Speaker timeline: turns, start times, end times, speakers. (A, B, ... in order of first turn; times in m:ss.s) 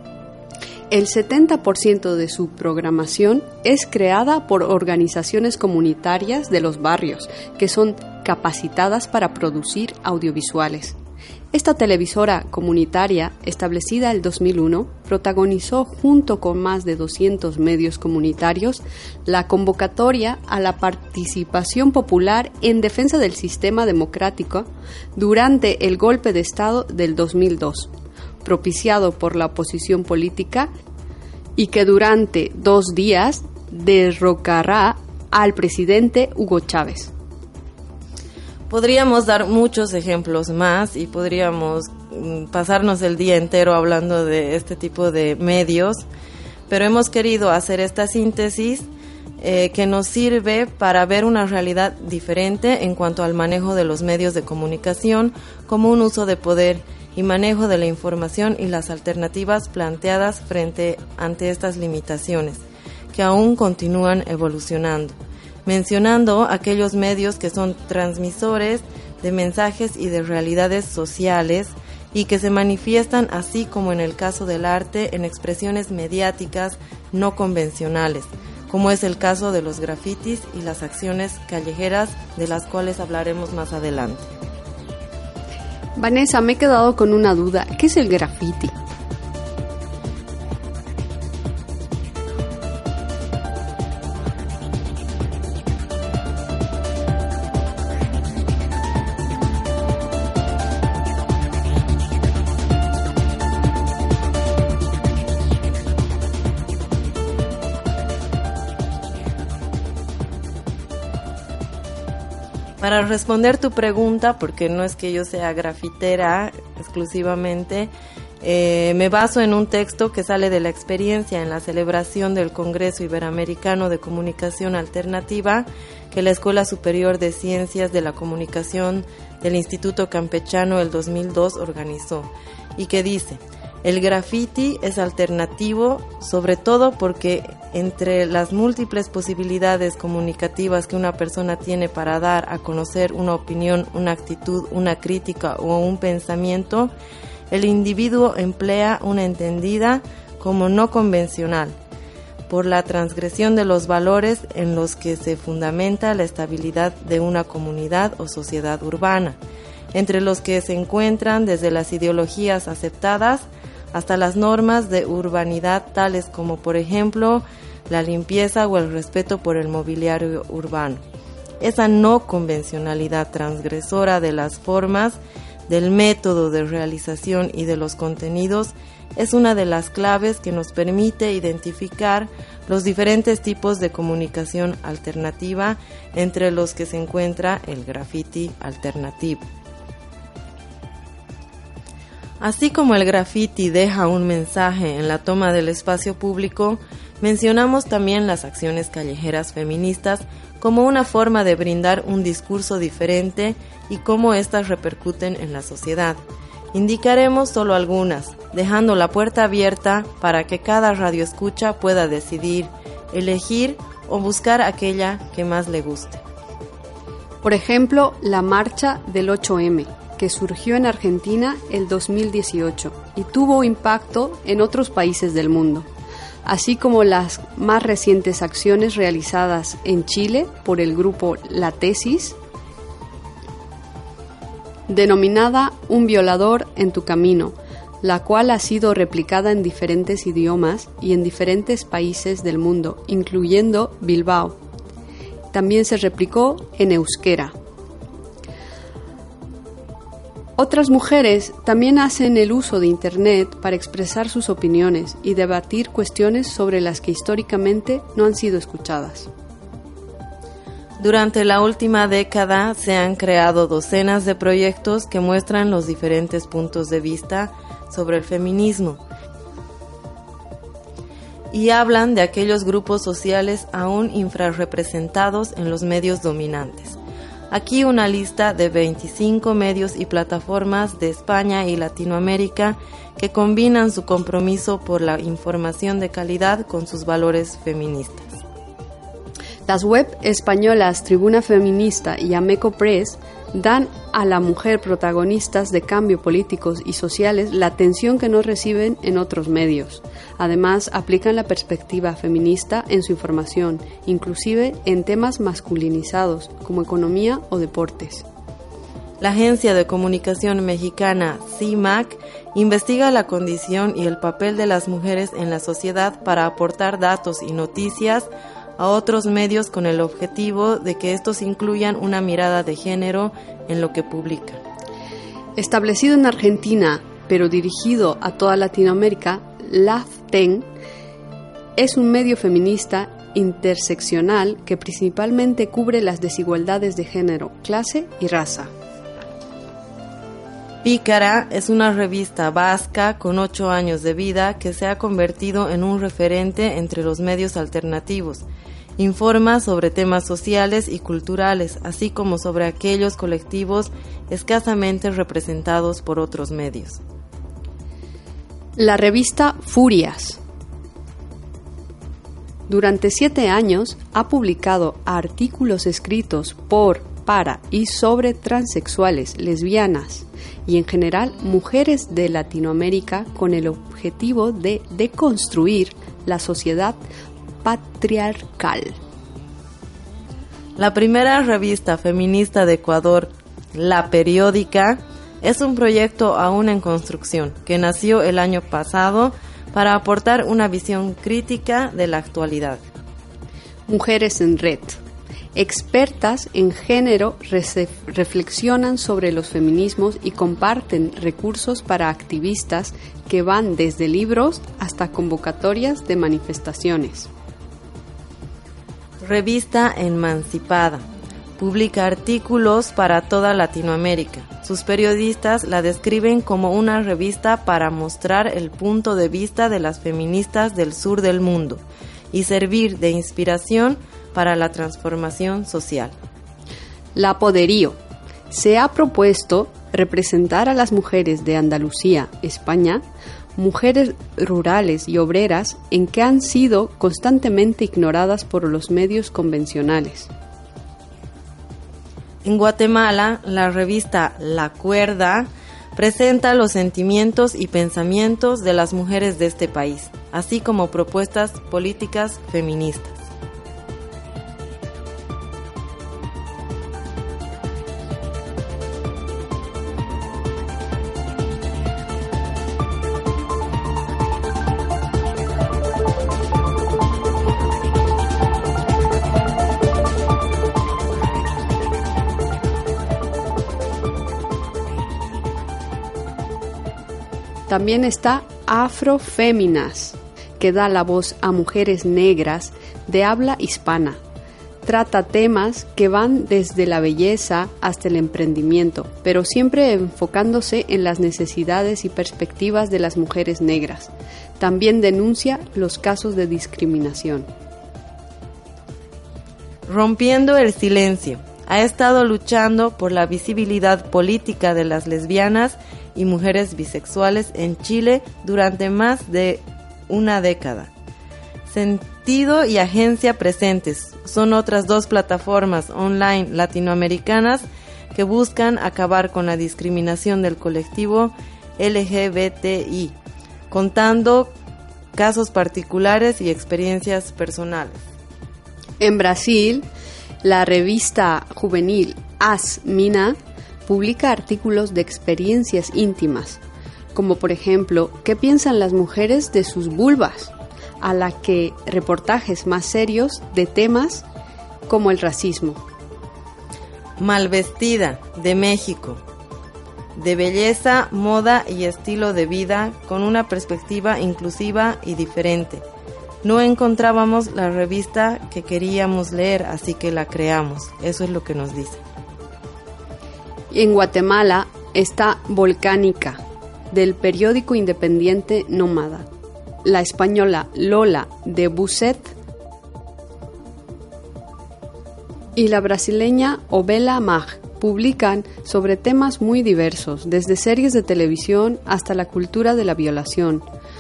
0:00.9-0:11.0 A
0:11.5-0:27.9 A
0:28.4-0:30.7 A
0:31.6-0:37.1 A
0:38.7-0:46.1 B
0:46.7-0:48.9 B
0:49.4-1:02.6 B
1:03.1-1:24.3 B
1:26.0-1:28.8 A
1:52.8-2:26.9 B
2:27.5-2:31.8 B
2:32.5-2:39.4 B
2:39.9-2:51.0 B
2:51.6-3:09.4 B
3:12.4-3:26.2 B
3:26.7-3:36.2 B
3:37.4-3:45.9 A
3:46.4-3:52.4 A
3:54.9-4:04.6 A
4:05.5-4:07.6 A
4:10.6-4:19.3 A
4:21.0-4:29.0 B
4:31.5-4:37.0 B
4:37.5-4:48.4 B
4:49.7-5:08.2 A
5:09.2-5:24.6 B
5:25.6-5:30.7 A
5:31.8-5:38.7 A
5:40.8-5:48.5 B
5:49.0-5:57.0 B
5:58.8-6:00.4 A
6:02.7-6:17.0 A
6:17.6-6:19.0 A
6:20.8-6:32.8 B
6:33.9-6:35.0 A
6:35.6-6:47.3 A
6:49.2-6:51.0 B
6:51.6-7:06.1 B
7:07.2-7:08.0 A
7:08.5-7:13.0 A
7:13.6-7:20.3 A
7:22.4-7:33.2 B
7:57.7-8:04.2 A
8:04.8-8:17.5 A
8:19.9-8:30.9 B
8:31.7-8:43.1 B
8:43.7-8:44.5 B
8:45.2-8:48.0 B
8:49.0-8:49.9 A
8:50.4-8:56.6 A
8:57.2-9:04.2 A
9:04.9-9:05.8 A
9:07.2-9:09.2 B
9:10.2-9:15.8 B
9:16.4-9:22.0 B
9:23.7-9:29.3 A
9:29.8-9:32.3 A
9:35.6-9:43.6 A